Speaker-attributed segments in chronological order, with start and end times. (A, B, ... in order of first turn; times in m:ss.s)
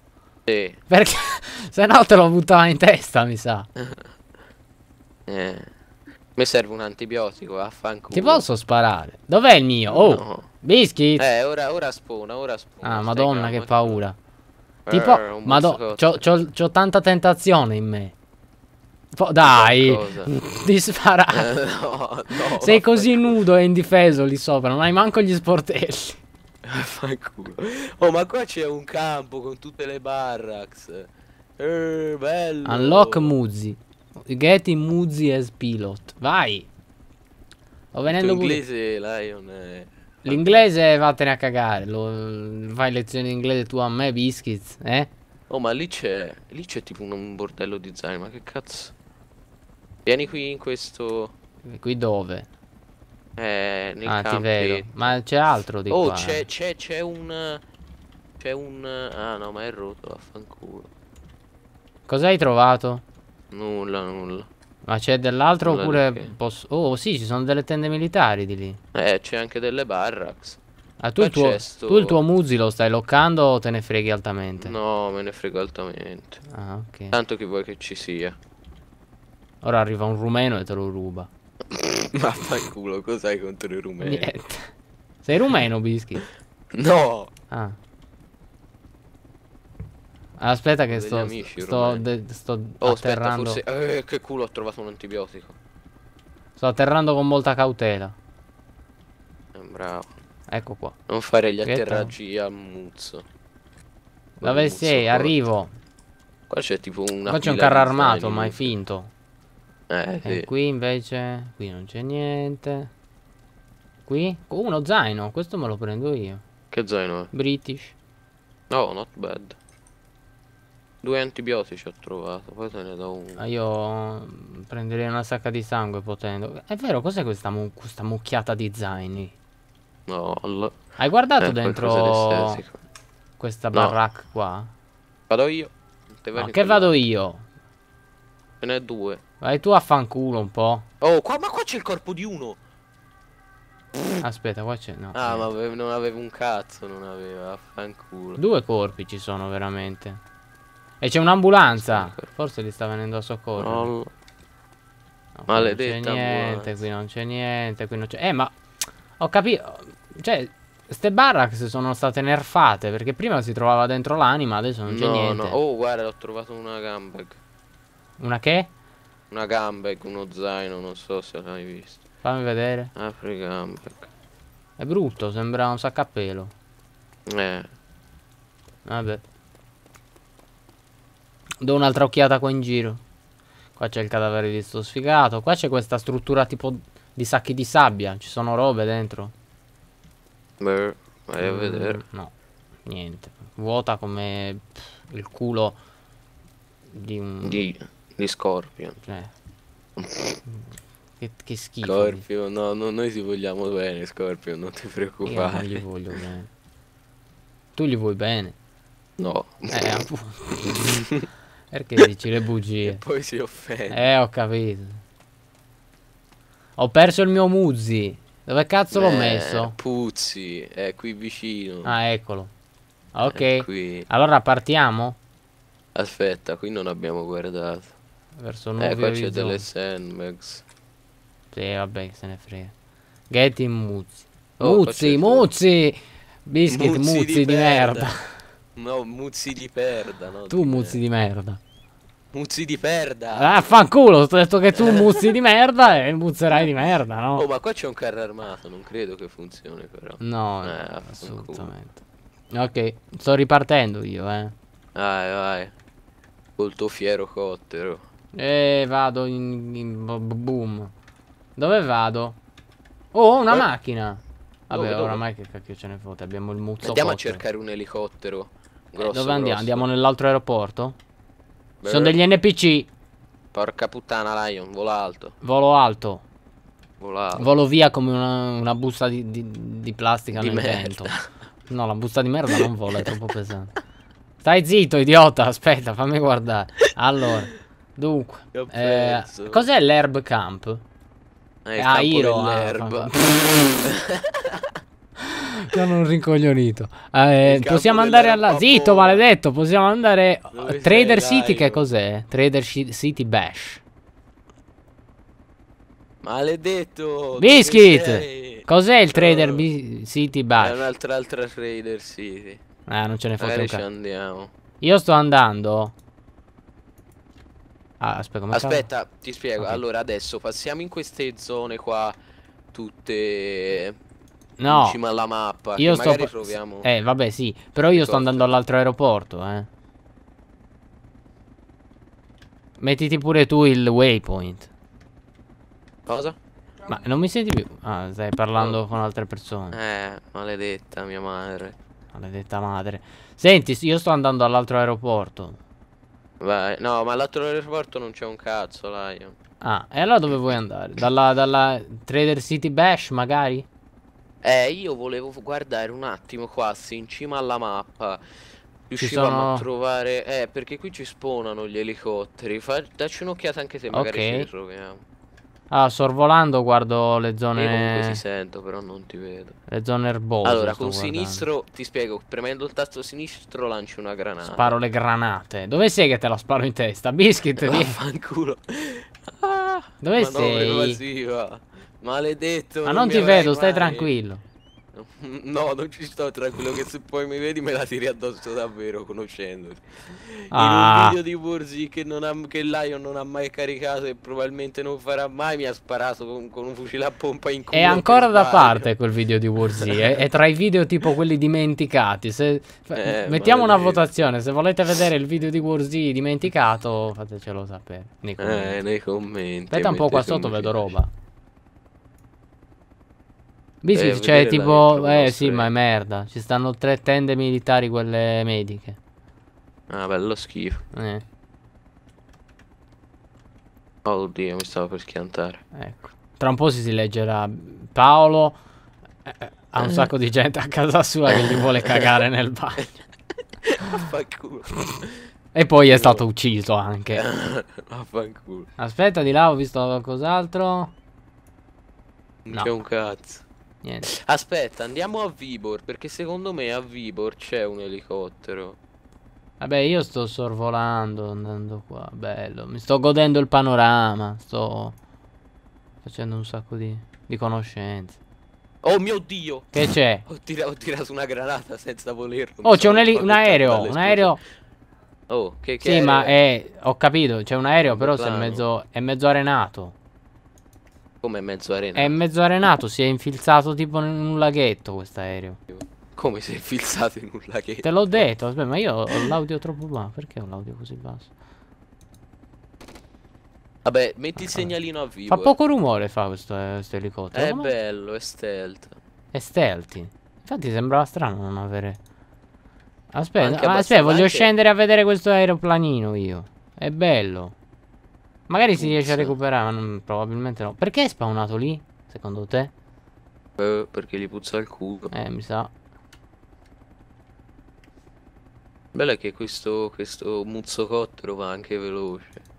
0:00.5-0:00.8 A
0:00.9-0:03.7 B
0:05.3-0:05.7 A
0:06.4-0:08.4 A
0:08.1-0:11.2 B
0:09.9-0:10.5 A
0:11.2-0:14.0 A
0:12.8-0:14.2 B
0:14.8-0:16.2 A
0:14.9-0:18.1 B
0:19.1-0:21.5 B
0:19.4-0:20.3 A
0:21.3-0:23.3 A
0:22.6-0:26.2 B
0:26.6-0:33.3 A
0:32.6-0:36.7 B
0:37.9-0:38.6 B
0:38.1-0:40.7 A
0:40.2-0:45.1 B
0:45.5-0:48.9 A
0:50.0-0:51.3 A
0:51.7-0:52.5 B
0:53.4-0:55.2 A
0:54.0-0:56.4 B
0:55.9-0:57.6 A
0:58.4-1:00.9 A
1:02.1-1:03.0 B
1:03.5-1:04.5 A
1:04.8-1:08.8 B
1:05.6-1:06.3 A
1:08.9-1:10.6 A
1:11.0-1:14.7 B
1:11.2-1:12.2 A
1:14.6-1:16.4 A
1:16.5-1:17.1 B
1:17.1-1:18.4 A
1:19.6-1:21.3 B
1:21.7-1:24.3 A
1:24.0-1:24.7 B
1:25.2-1:26.2 B
1:26.7-1:27.3 A
1:27.5-1:27.8 B
1:30.4-1:33.6 B
1:30.9-1:32.0 A
1:32.8-1:35.6 A
1:36.6-1:38.1 B
1:39.5-1:40.1 A
1:40.5-1:41.0 B
1:41.1-1:43.2 A
1:41.6-1:42.1 B
1:44.4-1:45.7 B
1:44.4-1:45.3 A
1:46.5-1:48.7 A
1:47.3-1:49.1 B
1:49.9-1:50.5 A
1:50.2-1:52.9 B
1:54.0-1:56.4 B
1:56.7-1:57.3 A
1:57.3-1:57.9 B
1:58.7-1:59.6 A
2:01.0-2:03.4 A
2:03.4-2:09.3 B
2:10.1-2:10.8 A
2:11.0-2:12.6 B
2:11.4-2:12.8 A
2:13.4-2:14.7 B
2:15.3-2:16.9 A
2:16.4-2:17.4 B
2:18.6-2:19.2 A
2:19.4-2:20.8 B
2:21.0-2:22.6 A
2:23.9-2:24.2 A
2:24.2-2:25.5 B
2:25.1-2:28.4 A
2:28.4-2:30.2 B
2:31.0-2:33.9 B
2:31.8-2:32.3 A
2:33.6-2:34.1 A
2:35.4-2:38.6 B
2:35.5-2:36.8 A
2:39.2-2:45.6 B
2:44.9-2:47.4 A
2:48.2-2:48.7 B
2:49.3-2:52.0 A
2:52.2-2:52.9 B
2:53.0-2:54.1 A
2:54.8-2:56.5 B
2:57.3-2:57.7 A
2:58.8-2:59.2 B
3:01.6-3:03.0 B
3:03.8-3:09.3 B
3:10.6-3:12.0 A
3:11.4-3:12.3 B
3:12.8-3:15.8 B
3:16.9-3:17.6 B
3:17.4-3:19.0 A
3:19.0-3:19.3 B
3:20.0-3:20.4 A
3:21.2-3:22.2 B
3:21.8-3:26.2 A
3:25.2-3:26.5 B
3:27.8-3:28.6 B
3:29.2-3:30.0 A
3:29.7-3:31.0 B
3:30.8-3:31.2 A
3:31.7-3:33.0 B
3:32.8-3:34.1 A
3:33.9-3:35.0 B
3:36.8-3:39.7 B
3:38.9-3:42.0 A
3:41.8-3:42.5 B
3:43.1-3:45.2 B
3:43.3-3:44.1 A
3:45.9-3:47.9 A
3:48.4-3:49.6 B
3:48.8-3:50.6 A
3:51.5-3:52.7 B
3:53.3-3:58.4 B
3:54.6-3:55.4 A
3:56.7-3:58.1 A
3:58.8-4:01.0 A
4:00.5-4:01.6 B
4:02.3-4:03.6 A
4:03.3-4:07.4 B
4:04.8-4:05.3 A
4:07.3-4:11.7 A
4:10.2-4:12.0 B
4:12.5-4:14.5 B
4:14.9-4:15.7 A
4:16.6-4:18.0 A
4:18.3-4:20.9 B
4:21.6-4:22.4 B
4:23.1-4:27.4 B
4:24.7-4:25.2 A
4:26.8-4:29.9 A
4:29.0-4:31.0 B
4:31.8-4:32.2 A
4:31.8-4:32.9 B
4:33.5-4:35.4 A
4:35.4-4:36.2 B
4:37.0-4:37.5 A
4:37.4-4:41.1 B
4:40.3-4:41.2 A
4:41.7-4:43.7 B
4:44.4-4:50.8 B
4:48.5-4:49.6 A
4:51.6-4:54.7 A
4:51.8-4:53.7 B
4:55.2-5:03.8 B
4:57.4-4:59.2 A
5:00.5-5:01.8 A
5:06.2-5:09.7 A
5:07.4-5:10.9 B
5:10.6-5:12.6 A
5:12.9-5:13.8 B
5:13.4-5:14.5 A
5:14.8-5:15.9 B
5:18.0-5:18.9 B
5:18.5-5:22.2 A
5:22.7-5:24.0 A
5:24.6-5:25.0 B
5:24.7-5:26.9 A
5:25.8-5:29.7 B
5:27.9-5:28.5 A
5:32.8-5:34.7 B
5:36.1-5:36.4 A
5:36.8-5:39.8 B
5:39.7-5:41.8 A
5:42.1-5:45.6 B
5:46.4-5:49.4 A
5:49.6-5:53.7 B
5:54.4-5:58.2 A
5:58.9-6:05.0 A
5:59.0-5:59.7 B
6:03.9-6:04.5 B
6:05.7-6:08.2 B
6:07.6-6:09.6 A
6:09.7-6:11.5 B
6:10.4-6:14.7 A
6:14.4-6:18.0 B
6:17.6-6:24.1 A
6:20.0-6:21.0 B
6:22.8-6:24.4 B
6:24.9-6:38.9 A
6:30.5-6:31.2 B
6:37.7-6:48.8 B
6:39.6-6:40.2 A
6:43.0-6:44.0 A
6:48.4-6:50.9 A
6:49.7-6:51.1 B
6:53.8-6:59.0 B
6:53.9-6:55.7 A
6:59.9-7:00.8 A
7:00.9-7:01.2 B
7:04.0-7:05.6 A
7:05.7-7:08.6 B
7:09.2-7:13.0 B
7:09.8-7:10.1 A
7:11.3-7:12.1 A
7:13.6-7:15.1 A
7:15.5-7:17.2 B
7:15.9-7:16.2 A
7:17.2-7:18.7 A
7:18.8-7:20.9 B
7:22.4-7:23.4 A
7:24.0-7:28.8 A
7:29.6-7:35.0 B
7:36.0-7:38.2 B
7:38.8-7:44.4 A
7:39.7-7:40.2 B
7:42.6-7:44.4 B
7:45.3-7:46.4 A
7:45.8-7:49.9 B
7:47.8-7:48.6 A
7:51.2-7:52.2 A
7:52.0-7:55.6 B
7:55.7-7:58.2 A
7:57.8-8:01.3 B
7:59.1-7:59.3 A
8:03.8-8:05.5 A
8:05.3-8:07.7 B
8:07.3-8:09.0 A
8:09.3-8:12.0 B
8:13.1-8:17.5 B
8:13.4-8:14.5 A
8:18.5-8:22.7 B
8:18.8-8:19.3 A
8:23.6-8:25.1 A
8:25.1-8:25.7 B
8:28.9-8:32.4 A